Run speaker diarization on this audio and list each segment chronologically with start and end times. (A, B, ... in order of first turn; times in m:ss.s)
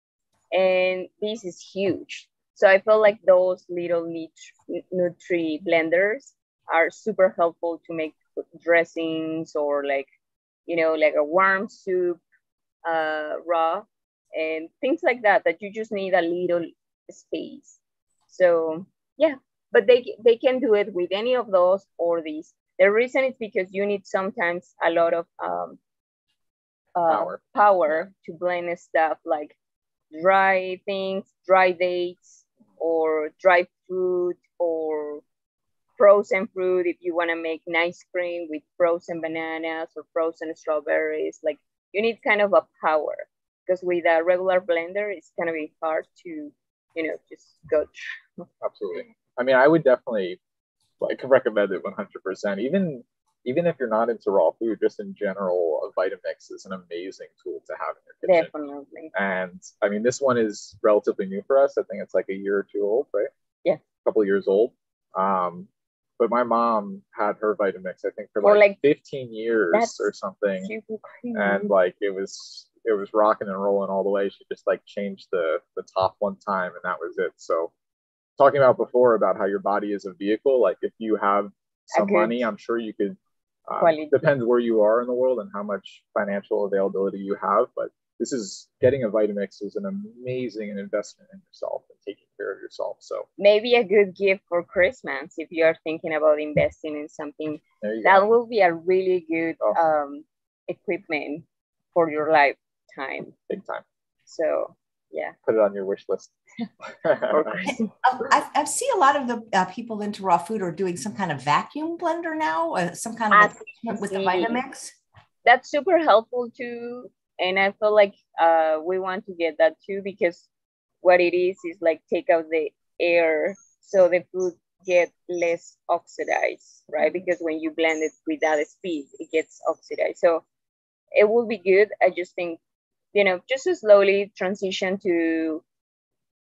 0:00.5-0:10.1 A
0:10.7-0:12.2 A
0:12.8-0:25.8 A
0:27.0-0:29.6 A
0:27.1-0:28.1 B
0:30.1-0:35.2 A
0:36.0-0:48.5 A
0:48.6-0:50.4 B
0:51.0-0:58.5 B
0:58.2-0:59.1 A
0:59.1-1:03.3 B
1:04.0-1:05.7 B
1:06.2-1:10.7 B
1:08.4-1:08.8 A
1:09.7-1:11.7 A
1:11.3-1:17.7 B
1:18.4-1:33.3 B
1:21.9-1:22.4 A
1:23.8-1:24.2 A
1:33.4-1:43.4 A
1:37.8-1:38.3 B
1:43.5-1:43.8 B
1:44.3-1:45.4 A
1:45.4-1:46.3 B
1:47.0-1:47.6 B
1:47.3-1:47.9 A
1:47.7-1:54.9 C
1:53.3-1:54.6 A
1:55.4-2:00.5 A
2:01.0-2:10.4 A
2:11.2-2:12.6 A
2:13.1-2:15.6 A